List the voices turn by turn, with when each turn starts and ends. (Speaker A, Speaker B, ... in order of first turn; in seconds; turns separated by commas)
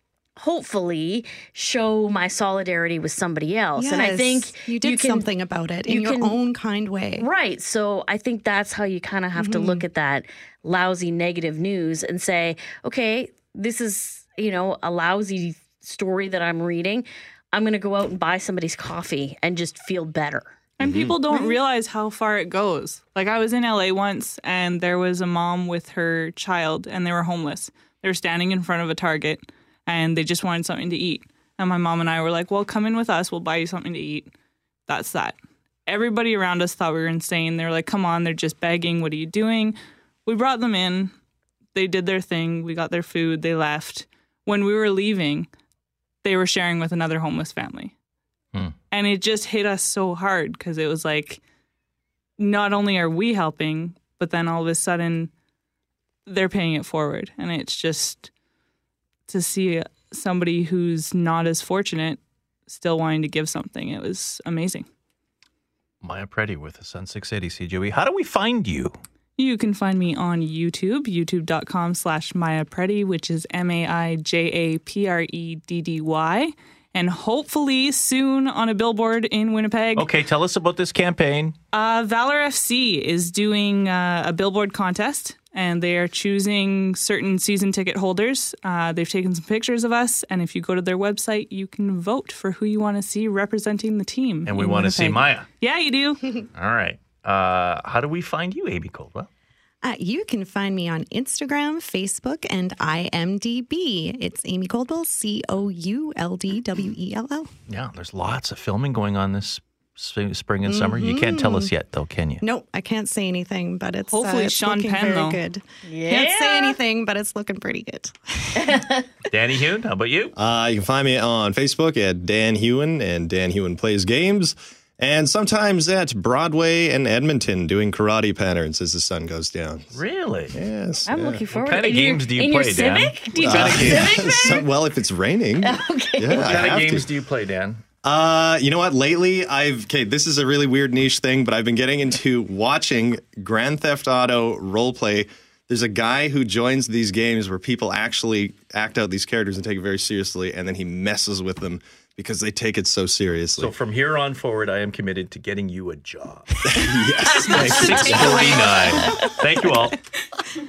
Speaker A: 0.4-5.2, Speaker B: 3.8-7.3, Speaker A: 5.9-6.4, Speaker A: 7.2-20.5, Speaker B: 9.4-9.9, Speaker C: 20.8-34.3, Speaker D: 20.8-21.1, Speaker B: 21.3-21.5, Speaker C: 34.9-41.1, Speaker C: 41.8-45.5, Speaker C: 46.2-47.9, Speaker C: 48.9-51.4, Speaker C: 52.4-55.3, Speaker C: 56.2-58.3, Speaker C: 59.3-64.9, Speaker D: 66.0-69.0, Speaker C: 69.4-80.1, Speaker D: 80.0-81.5, Speaker C: 81.7-96.2, Speaker D: 94.5-95.5, Speaker D: 96.5-99.3, Speaker B: 99.8-107.5, Speaker D: 107.7-112.4, Speaker B: 110.7-111.7, Speaker B: 112.4-118.6, Speaker C: 114.1-115.4, Speaker A: 115.9-116.8, Speaker A: 118.6-119.0, Speaker D: 119.3-120.3, Speaker E: 120.4-130.0, Speaker D: 129.9-130.6, Speaker E: 130.5-131.4, Speaker A: 131.0-134.7, Speaker D: 131.5-134.1, Speaker E: 133.4-137.1, Speaker A: 135.6-136.4, Speaker D: 136.3-137.8, Speaker E: 138.0-153.7, Speaker D: 153.6-156.5, Speaker E: 156.7-159.0, Speaker A: 157.3-158.7, Speaker D: 157.4-160.0